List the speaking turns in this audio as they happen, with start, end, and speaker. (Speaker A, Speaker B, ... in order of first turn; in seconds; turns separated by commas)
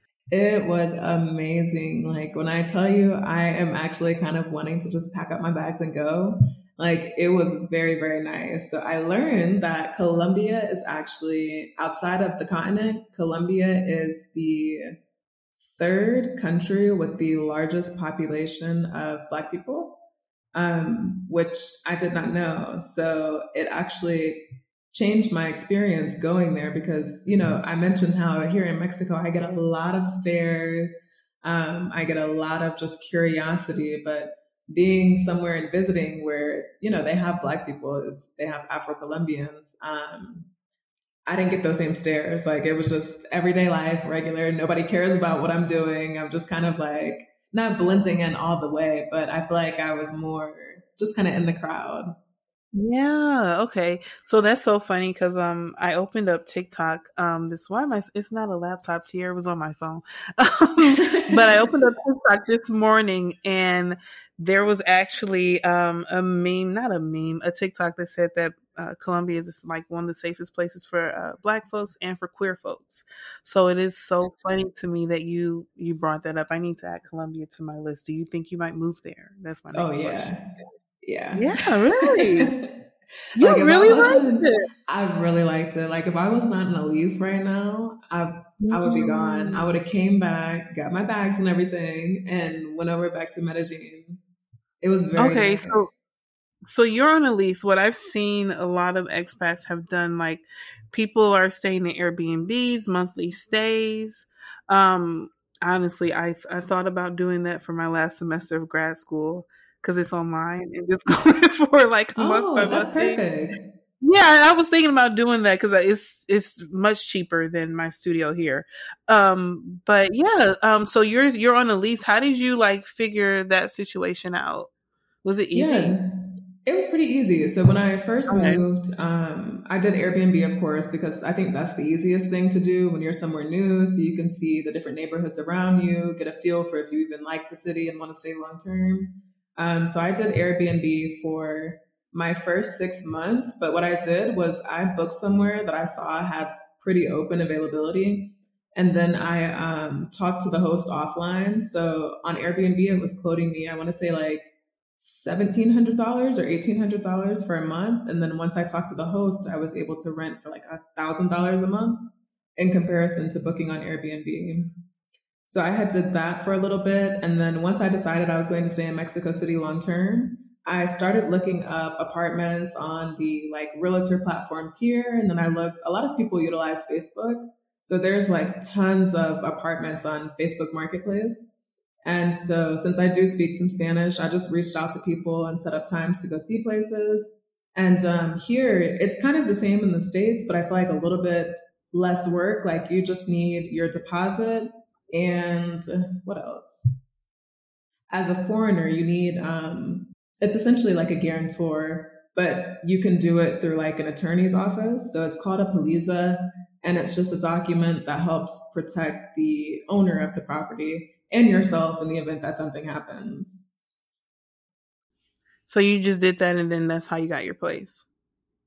Speaker A: 0.3-14.9, Speaker A: 15.6-20.0, Speaker A: 20.6-40.5, Speaker A: 41.3-52.1, Speaker B: 52.7-80.4, Speaker A: 61.1-61.6, Speaker A: 79.7-80.4, Speaker A: 81.0-82.8, Speaker B: 81.4-82.5, Speaker B: 83.4-84.7, Speaker A: 83.4-94.2, Speaker B: 88.6-89.6, Speaker A: 94.8-96.0, Speaker B: 95.2-95.9, Speaker B: 96.7-113.2, Speaker A: 112.2-113.6, Speaker B: 114.0-124.7, Speaker B: 125.2-126.0, Speaker A: 125.5-126.1, Speaker A: 126.6-164.8, Speaker B: 128.3-128.6, Speaker A: 165.5-181.5, Speaker A: 182.0-197.0, Speaker A: 198.1-213.7, Speaker B: 215.7-218.0